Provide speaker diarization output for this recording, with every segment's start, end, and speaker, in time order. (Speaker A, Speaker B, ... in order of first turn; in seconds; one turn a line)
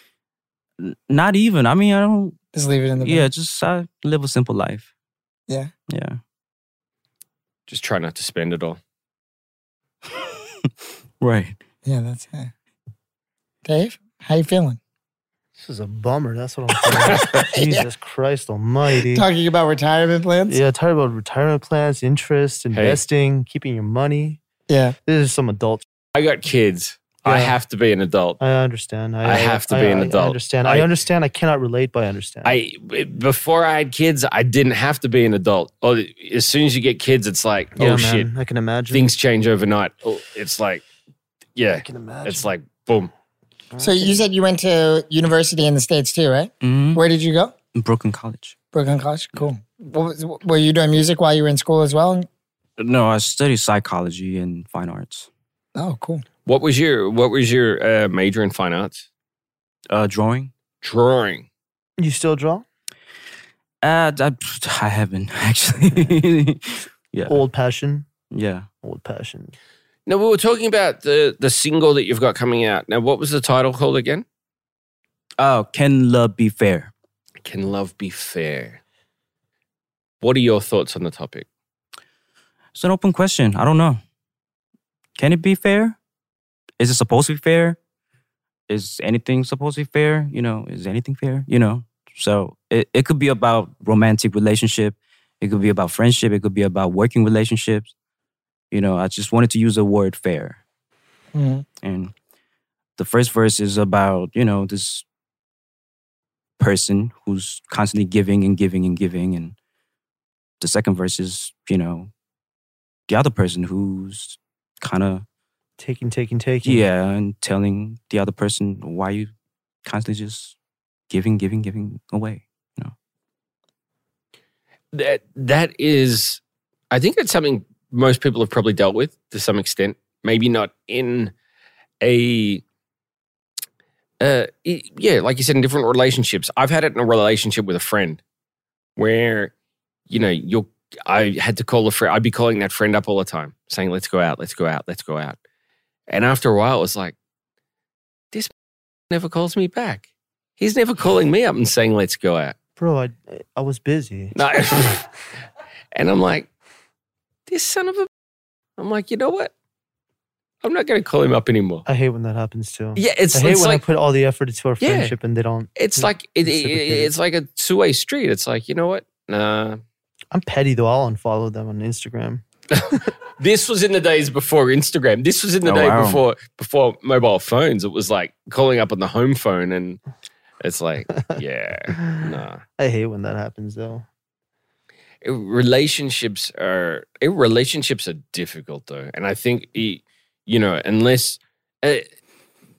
Speaker A: 0.8-2.4
Speaker B: 2.5-3.3
Speaker A: 3.0-4.9
Speaker A: 5.9-6.2
Speaker C: 7.7-8.8
Speaker A: 10.1-11.6
Speaker B: 11.8-12.5
Speaker B: 13.7-14.8
Speaker D: 15.6-19.3
Speaker B: 17.0-17.9
Speaker B: 19.1-20.6
Speaker D: 20.5-24.4
Speaker C: 22.7-23.0
Speaker B: 24.7-25.0
Speaker D: 25.1-25.9
Speaker C: 26.1-28.4
Speaker D: 27.3-27.6
Speaker D: 28.4-32.6
Speaker C: 29.2-30.9
Speaker C: 32.5-38.3
Speaker D: 37.8-39.1
Speaker C: 38.9-40.8
Speaker C: 41.6-43.1
Speaker D: 41.7-42.5
Speaker D: 43.7-44.2
Speaker B: 43.8-47.6
Speaker A: 46.6-47.0
Speaker A: 47.7-48.5
Speaker B: 48.7-52.3
Speaker A: 52.8-55.3
Speaker B: 55.8-56.2
Speaker C: 56.5-59.1
Speaker A: 59.9-60.5
Speaker C: 60.8-61.5
Speaker D: 62.0-62.6
Speaker A: 63.8-67.4
Speaker D: 67.3-68.1
Speaker A: 68.3-68.7
Speaker D: 68.8-69.5
Speaker C: 70.1-74.2
Speaker A: 75.4-76.9
Speaker C: 77.4-78.8
Speaker C: 80.2-81.5
Speaker A: 82.8-84.0
Speaker A: 85.2-86.0
Speaker A: 86.8-87.8
Speaker A: 88.7-97.9
Speaker A: 98.7-100.6
Speaker B: 101.3-101.7
Speaker A: 101.8-102.1
Speaker A: 103.0-105.0
Speaker A: 106.6-109.5
Speaker A: 110.6-112.1
Speaker A: 113.1-115.2
Speaker D: 115.8-116.8
Speaker A: 116.7-119.3
Speaker A: 119.8-120.5
Speaker A: 121.1-122.9
Speaker C: 124.9-131.3
Speaker C: 132.0-132.6
Speaker C: 134.2-138.2
Speaker C: 139.0-139.5
Speaker C: 140.1-145.4
Speaker C: 146.1-147.2
Speaker C: 149.1-150.1
Speaker C: 150.6-152.6
Speaker D: 152.8-154.9
Speaker C: 154.3-155.1
Speaker C: 155.9-156.5
Speaker C: 157.5-158.1
Speaker C: 158.8-159.5
Speaker C: 160.6-161.9
Speaker D: 161.9-167.1
Speaker C: 163.0-163.8
Speaker C: 164.8-165.2
Speaker C: 165.8-169.8
Speaker D: 170.3-172.4
Speaker C: 172.7-180.0
Speaker A: 175.6-176.2
Speaker C: 180.6-182.6
Speaker D: 182.8-184.1
Speaker C: 185.2-192.1